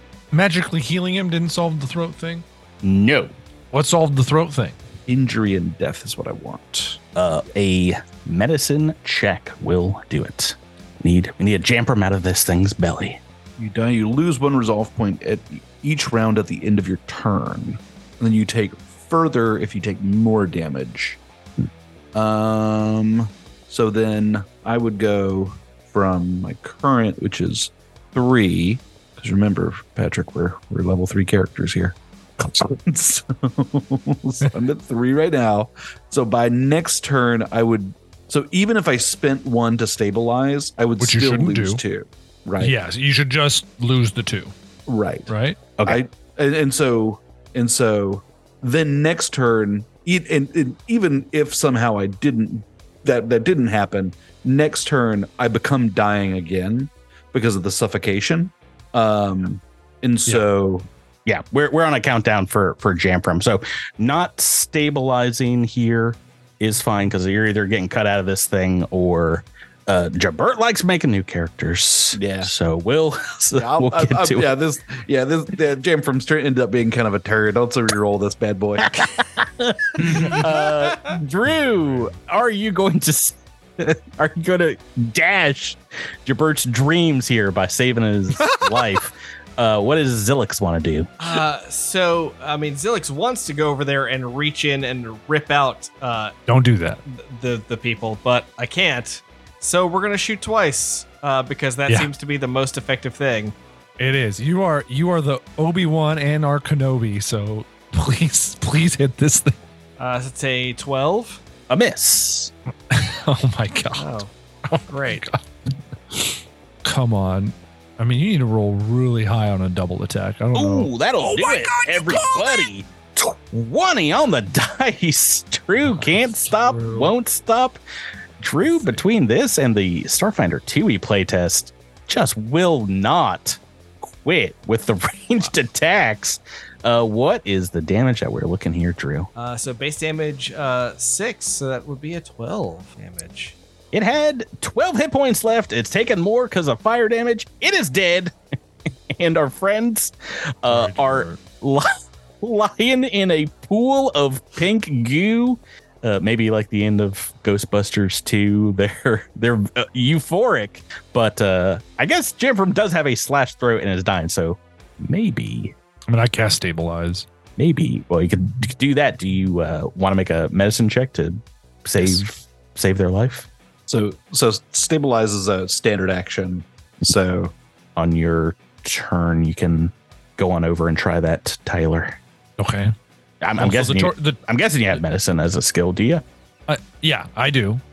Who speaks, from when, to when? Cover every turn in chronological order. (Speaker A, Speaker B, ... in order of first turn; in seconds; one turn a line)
Speaker A: 0.3-2.4
Speaker B: 2.8-3.3
Speaker A: 3.7-4.8
Speaker C: 5.1-7.0
Speaker B: 7.1-13.2
Speaker C: 13.6-21.2
Speaker C: 22.1-42.7
Speaker A: 41.0-41.8
Speaker A: 42.6-44.5
Speaker C: 44.9-60.9
Speaker A: 45.3-45.6
Speaker B: 61.2-74.5
Speaker C: 72.1-72.5
Speaker C: 73.5-79.0
Speaker B: 78.8-91.1
Speaker C: 80.1-80.4
Speaker A: 88.4-88.8
Speaker D: 91.2-96.3
Speaker A: 96.5-97.0
Speaker D: 97.1-103.5
Speaker A: 104.0-109.6
Speaker D: 110.0-111.4
Speaker B: 111.7-112.5
Speaker A: 112.9-115.4
Speaker D: 114.0-114.3
Speaker D: 114.9-115.2
Speaker A: 116.1-122.7
Speaker B: 120.5-127.8
Speaker A: 125.8-127.1
Speaker B: 128.4-133.6
Speaker A: 128.6-129.0
Speaker B: 134.2-139.3
Speaker D: 139.3-143.6
Speaker B: 143.9-148.3
Speaker B: 149.1-151.9
Speaker A: 150.7-151.4
Speaker B: 152.4-165.7
Speaker A: 166.1-167.2
Speaker B: 167.6-173.5
Speaker C: 173.9-177.5
Speaker B: 177.9-182.2
Speaker A: 182.6-182.9
Speaker B: 183.4-186.2
Speaker A: 183.6-184.4
Speaker A: 186.7-187.8